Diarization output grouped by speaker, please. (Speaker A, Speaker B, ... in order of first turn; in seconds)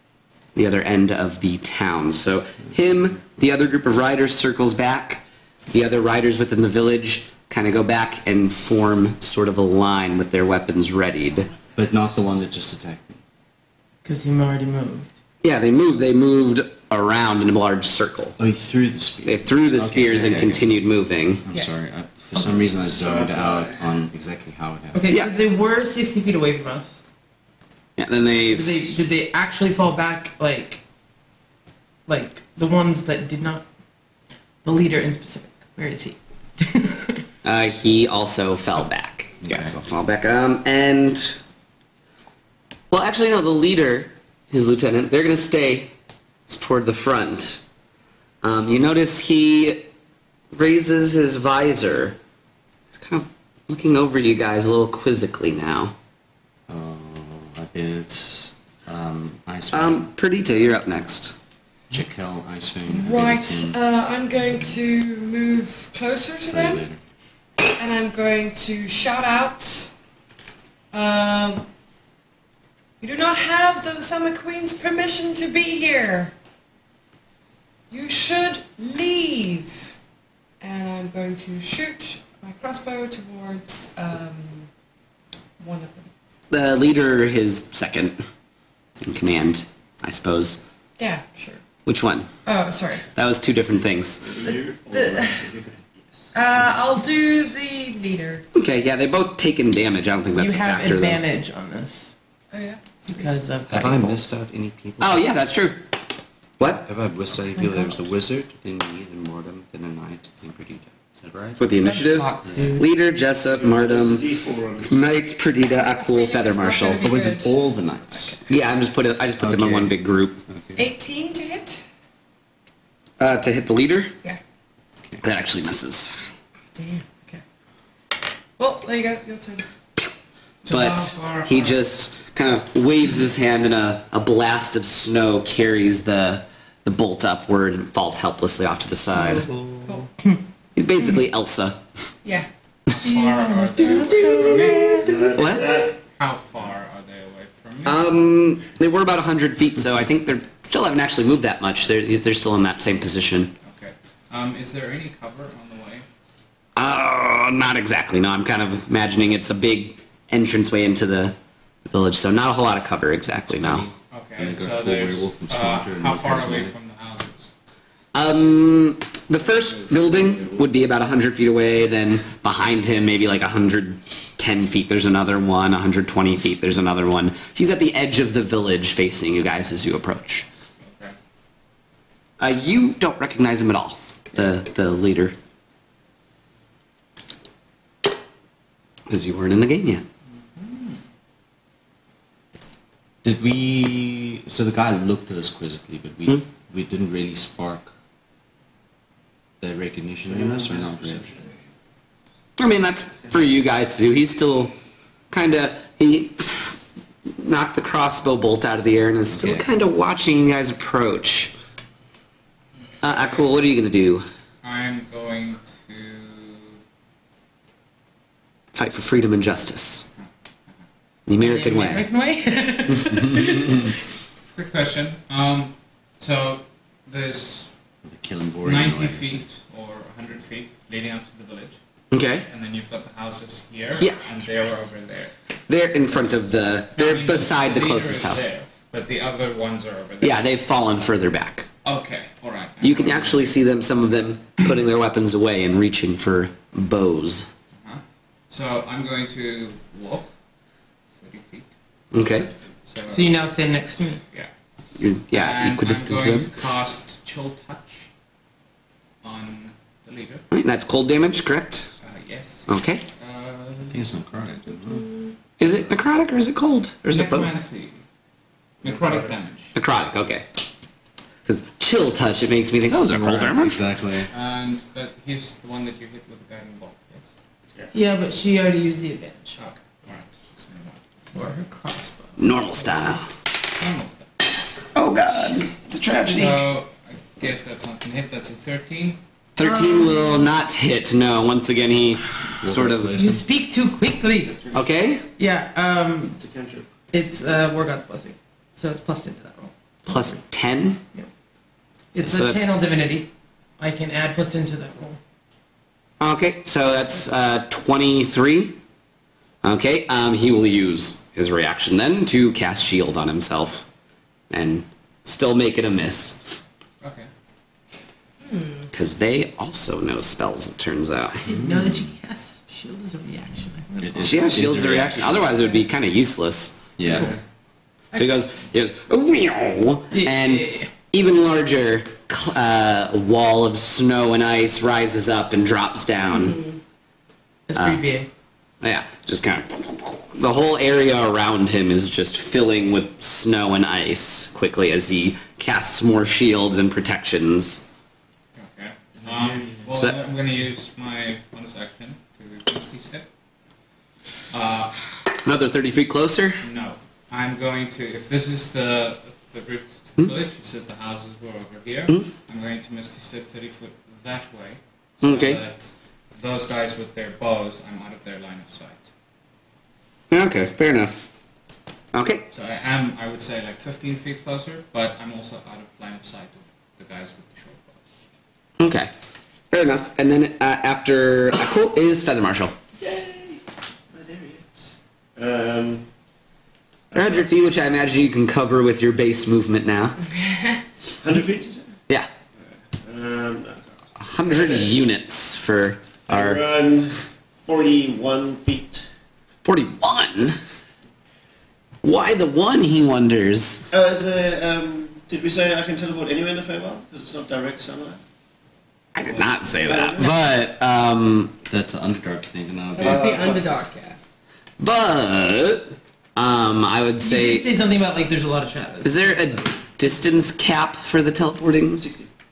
Speaker A: 0.6-11.5, 15.4-18.4, 19.2-21.4, 28.0-29.0, 37.4-41.4, 42.9-45.9, 46.5-47.6, 48.4-49.9, 50.5-52.2, 52.9-56.0, 59.7-61.4, 86.5-88.2, 89.0-90.6, 91.8-92.3, 93.2-94.3, 98.5-101.2, 105.0-105.9, 106.6-106.8, 111.6-114.3, 114.8-117.3, 118.5-120.4, 123.2-124.1, 125.2-126.2, 130.7-139.5, 140.8-141.8, 143.8-145.9, 147.8-153.5, 156.8-161.4, 161.9-163.9, 168.1-180.5, 182.4-185.4, 189.1-190.1, 202.6-204.7, 205.3-206.8, 207.4-211.5, 213.0-214.3, 218.7-220.1, 221.3-222.1, 223.2-223.8, 232.1-232.5, 235.7-238.5, 240.2-241.7, 242.8-247.5, 252.1-252.5, 255.0-256.5, 260.5-261.9, 262.7-263.0, 265.6-267.6, 269.8-270.4, 271.4-273.8, 282.4-283.3, 284.9-286.7, 289.6-293.1, 294.7-295.2, 300.1-301.0, 302.2-302.7, 306.2-308.8, 309.6-313.9, 314.5-316.6, 318.9-321.6, 324.2-327.0, 328.1-336.6, 337.8-338.0, 338.8-347.9, 355.4-356.6, 365.2-365.6, 370.3-371.1, 372.1-372.4, 378.8-379.1, 379.7-382.7, 387.1-390.2, 394.2-396.6, 399.6-400.6, 402.0-403.9, 409.1-411.5, 414.8-417.7, 419.0-422.1
Speaker B: 11.8-13.2, 18.4-20.8, 21.4-25.1, 39.4-39.8, 56.7-60.1, 61.9-63.8, 66.5-67.0, 103.7-105.3, 106.8-111.7, 112.4-112.8, 117.0-118.4, 119.4-120.0, 120.5-120.9, 139.4-140.0, 163.4-166.7, 169.7-170.6, 193.2-197.9, 199.6-201.3, 209.3-209.7, 228.0-229.5, 263.9-265.1, 273.1-274.3, 292.6-293.4, 321.5-322.1, 324.0-325.8, 327.0-327.3, 411.7-413.4
Speaker C: 14.0-15.1, 24.9-27.0, 28.4-30.8, 32.1-33.6, 34.6-37.2, 100.3-102.1, 103.1-104.2, 107.4-108.0, 111.8-112.9, 143.0-145.1, 221.4-224.0, 253.1-254.2, 277.9-279.6, 281.3-283.1, 289.6-290.5, 293.1-294.6, 295.4-296.4, 297.1-300.4, 302.1-305.2, 321.5-324.8, 330.1-330.9, 337.7-338.3, 417.2-419.6
Speaker D: 22.4-24.0, 94.2-96.3, 113.5-115.1, 145.0-146.0, 200.3-201.6, 268.8-269.3, 294.3-294.9, 296.4-296.9, 327.1-327.4, 349.2-349.8, 383.0-386.1, 387.1-387.7, 391.2-391.9, 392.6-395.0, 396.3-399.1, 403.9-408.2, 409.2-410.4, 413.0-413.7, 422.0-422.3
Speaker E: 62.9-66.8, 67.6-69.9, 70.9-71.7, 73.0-76.3, 77.9-80.0, 80.6-84.7, 85.6-86.1, 91.0-91.6, 92.5-93.0, 94.4-95.5, 96.3-98.5, 102.5-103.3, 115.8-117.6, 120.8-121.8, 126.7-127.4, 128.6-129.7, 318.4-318.9, 336.3-336.8, 390.2-390.8, 413.0-414.2
Speaker F: 130.7-131.8, 143.0-144.8, 146.1-148.1, 153.6-156.1, 164.1-167.5, 180.8-181.2, 190.5-191.0, 213.0-213.6, 214.6-216.8, 224.5-227.7, 228.6-231.8, 232.5-235.3, 236.1-240.5, 241.8-243.6, 247.7-250.3, 251.2-251.7, 252.9-253.5, 255.3-258.1, 259.2-260.4, 262.0-264.2, 267.1-268.0, 268.8-269.7, 274.3-277.3, 279.6-281.0, 283.8-284.3, 286.2-289.2, 317.0-317.3, 348.6-353.3, 354.5-355.1, 356.6-369.1, 372.5-378.0